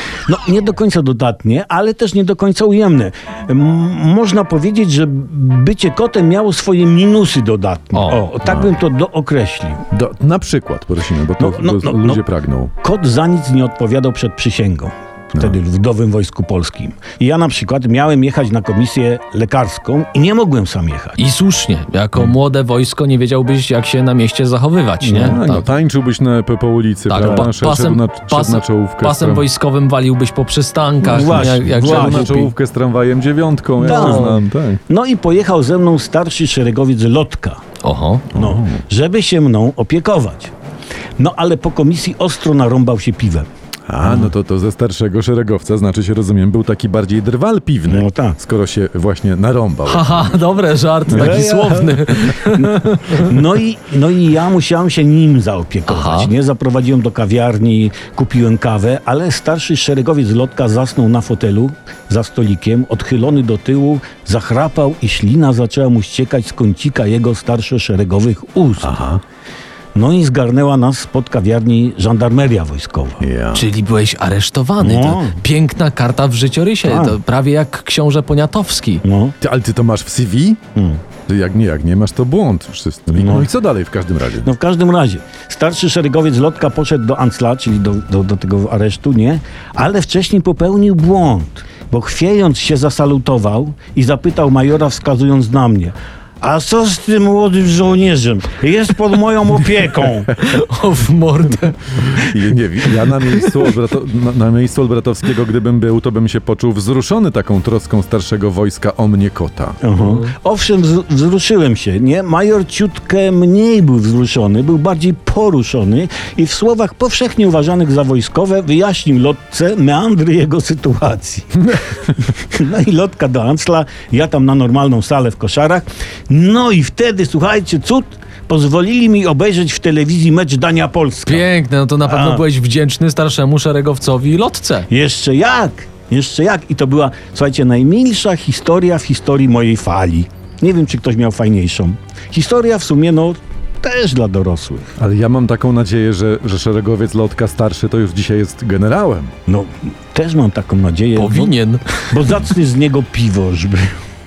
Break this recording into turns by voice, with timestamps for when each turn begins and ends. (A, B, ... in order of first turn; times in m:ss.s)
0:00.3-0:09.8 A
0:07.9-0:08.2 B
0:08.4-0:08.7 C
0:09.9-0:12.7 C
0:11.4-0:12.2 A
0:12.8-0:21.2 A
0:21.2-0:25.7 B
0:25.0-0:25.4 A
0:25.2-0:29.4 C
0:27.1-0:32.5 B
0:27.2-0:27.4 A
0:31.0-0:34.8 C
0:31.1-0:32.5 A
0:33.8-0:34.3 B
0:33.8-0:37.6 A
0:37.8-0:38.3 B
0:38.3-0:38.8 C
0:38.4-0:40.5 A
0:41.2-0:43.5 A
0:43.9-0:50.4 C
0:44.0-0:44.3 A
0:47.9-0:48.4 A
0:49.9-0:53.3 B
0:51.1-1:08.9 A
0:51.1-0:51.4 C
0:55.9-0:56.3 B
1:08.8-1:09.2 C
1:10.0-1:13.2 A
1:13.2-1:13.7 C
1:13.5-1:19.0 B
1:14.8-1:15.4 A
1:16.8-1:17.2 A
1:19.0-1:19.4 A
1:19.4-1:20.6 C
1:20.8-1:21.0 A
1:21.3-1:24.5 C
1:23.1-1:23.5 A
1:24.4-1:40.3 A
1:40.4-1:42.3 B
1:42.3-1:49.8 C
1:43.3-1:43.6 B
1:49.8-2:11.5 A
1:50.0-1:50.3 B
2:11.3-2:14.9 B
2:12.0-2:12.4 A
2:14.9-2:24.9 A
2:25.0-2:29.3 C
2:29.5-2:31.6 A
2:31.2-2:31.8 B
2:32.1-2:33.9 A